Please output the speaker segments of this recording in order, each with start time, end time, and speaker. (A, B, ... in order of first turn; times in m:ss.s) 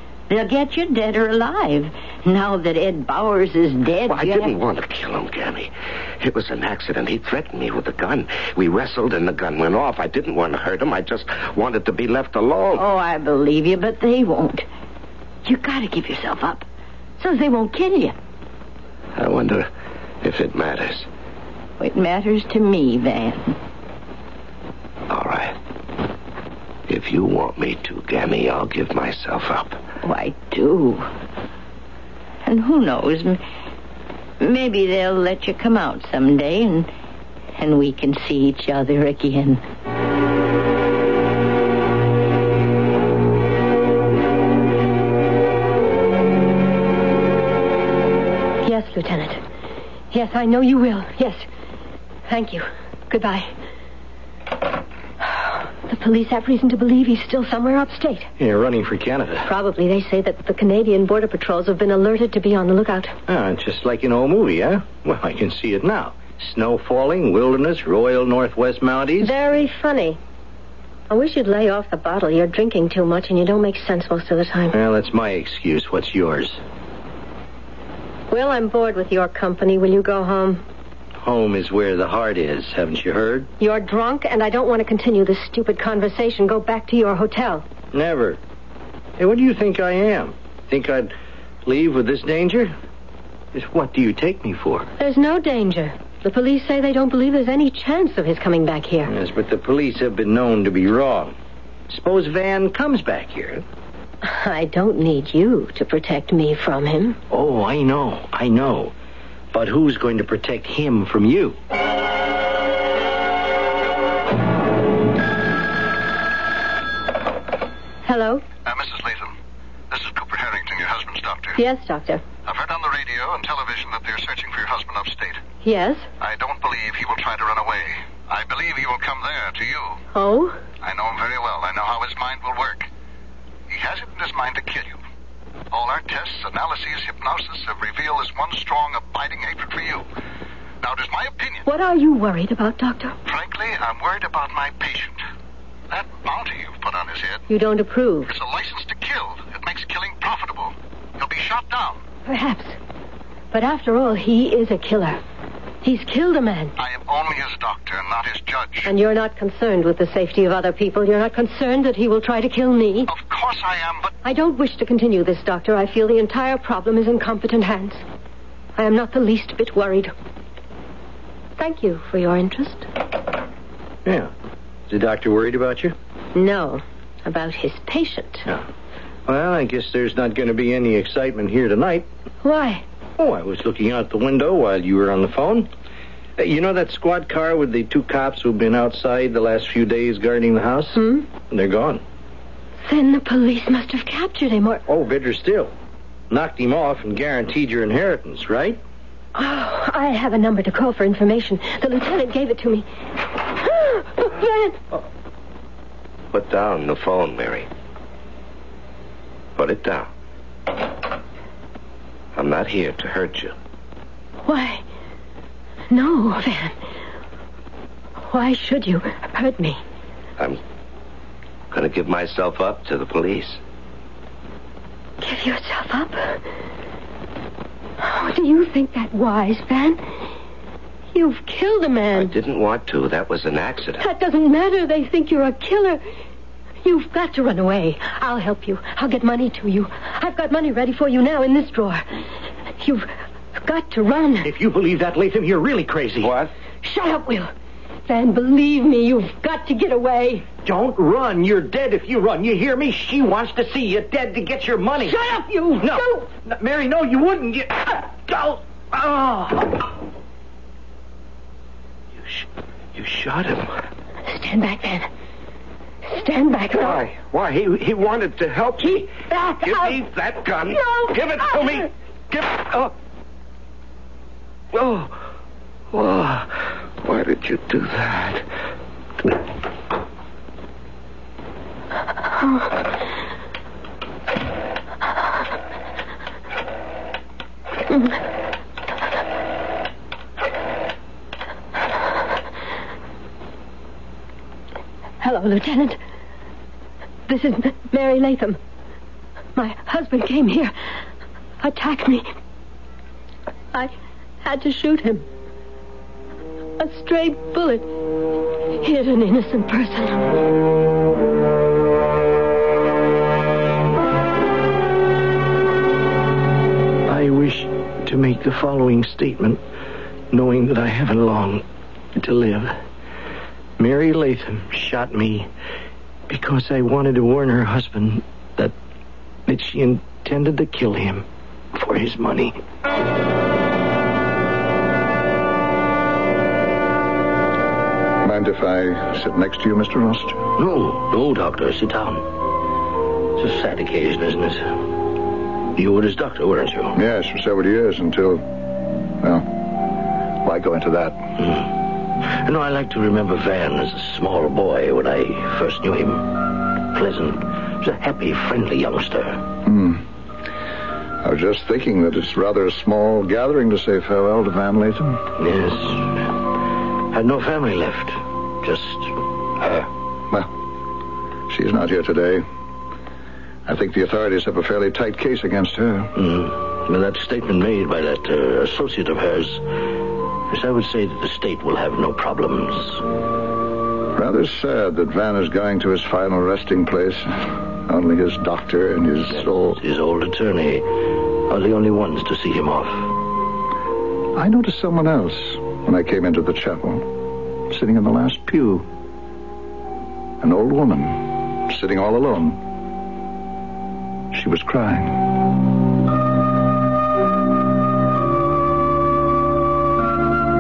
0:00.3-0:04.5 A
0:04.0-0:12.8 B
0:12.8-0:14.6 A
0:15.4-0:16.6 A
0:17.2-0:18.1 A
0:19.2-0:19.7 B
0:20.2-0:21.1 B
0:21.8-0:23.5 A
0:25.1-0:25.5 B
0:26.9-0:29.8 B
0:30.0-0:31.1 A
0:32.4-0:33.4 A
0:34.4-0:36.9 A
0:37.5-0:39.6 A
0:48.6-0:49.4 C
0:50.1-0:51.4 C
0:52.3-0:53.5 C
0:55.2-0:58.3 C
0:58.4-0:59.5 D
0:59.4-1:03.2 C
1:03.3-1:09.3 D
1:09.2-1:10.2 C
1:11.1-1:14.8 C
1:14.7-1:16.6 D
1:18.3-1:20.6 C
1:21.2-1:23.5 D
1:23.6-1:27.6 C
1:27.9-1:28.4 D
1:29.2-1:31.1 D
1:31.6-1:32.7 D
1:33.5-1:34.9 D
1:35.0-1:39.1 C
1:39.1-1:41.3 D
1:41.9-1:43.6 D
1:44.2-1:47.2 C
1:47.3-1:48.9 D
1:49.5-1:51.6 D
1:58.0-1:58.4 C
1:58.6-1:59.3 E
1:59.9-2:01.6 E
2:01.6-2:02.2 C
2:02.4-2:05.4 E
2:05.6-2:06.1 C
2:06.2-2:10.0 E
2:10.1-2:10.6 C
2:10.8-2:12.9 E
2:13.7-2:15.0 E
2:15.7-2:20.0 E
2:20.8-2:21.6 E
2:21.6-2:23.2 C
2:23.2-2:25.2 E
2:25.9-2:27.4 E
2:27.5-2:28.3 C
2:28.3-2:32.0 E
2:32.2-2:32.8 C
2:33.5-2:35.2 C
2:35.8-2:36.7 C
2:36.8-2:38.9 E
2:38.8-2:43.1 C
2:43.1-2:44.1 E
2:44.2-2:48.0 C
2:48.8-2:50.1 C
2:51.6-2:52.9 C
2:54.0-2:54.3 D
2:54.9-2:55.9 D
2:56.3-2:58.5 C
2:59.3-3:02.1 D
3:02.4-3:02.8 C
3:03.2-3:05.7 D
3:06.4-3:12.0 D
3:10.9-3:11.3 C
3:12.8-3:14.8 C
3:14.9-3:15.7 D
3:16.3-3:18.8 D
3:19.3-3:22.8 C
3:23.4-3:24.8 C
3:26.3-3:27.7 B
3:29.6-3:30.1 B
3:32.3-3:33.5 B
3:34.4-3:34.8 C
3:35.9-3:36.8 C
3:38.2-3:39.8 C
3:41.7-3:43.6 B
3:45.2-3:46.4 C
3:48.0-3:50.0 C
3:51.1-3:52.3 C
3:52.1-3:54.0 B
3:54.0-3:56.0 C
3:56.8-4:02.2 C
4:02.8-4:04.5 C
4:04.4-4:06.3 D
4:06.2-4:06.5 B
4:06.8-4:07.5 C
4:08.1-4:10.4 C
4:10.6-4:15.2 D
4:15.0-4:16.2 C
4:15.8-4:19.8 D
4:22.2-4:23.7 B
4:24.3-4:25.1 C
4:26.0-4:27.1 C
4:26.7-4:32.9 B
4:29.3-4:30.0 C
4:34.7-4:35.2 B
4:35.9-4:38.4 B
4:55.2-4:56.0 C
4:57.3-4:58.6 C
4:59.6-5:00.7 C
5:01.6-5:02.2 C
5:04.4-5:05.2 C
5:06.8-5:07.9 C
5:08.8-5:10.2 C
5:17.1-5:19.6 D
5:20.3-5:21.6 D
5:22.2-5:22.7 D
5:23.8-5:25.5 D
5:26.3-5:28.7 D
5:29.5-5:32.6 D
5:38.2-5:40.4 E
5:40.6-5:42.3 D
5:43.4-5:44.8 D
5:45.7-5:47.0 D
5:46.9-5:48.6 E
5:49.2-5:49.7 E
5:50.4-5:51.2 E
5:51.4-5:59.5 D
5:59.6-6:00.0 E
6:01.2-6:05.2 E
6:05.4-6:06.4 D
6:07.1-6:09.2 D
6:11.5-6:12.4 E
6:13.6-6:16.1 E
6:16.2-6:19.6 D
6:20.5-6:23.0 D
6:24.1-6:29.8 E
6:29.3-6:33.2 D
6:34.4-6:38.9 E
6:40.4-6:42.6 E
6:44.3-6:45.2 E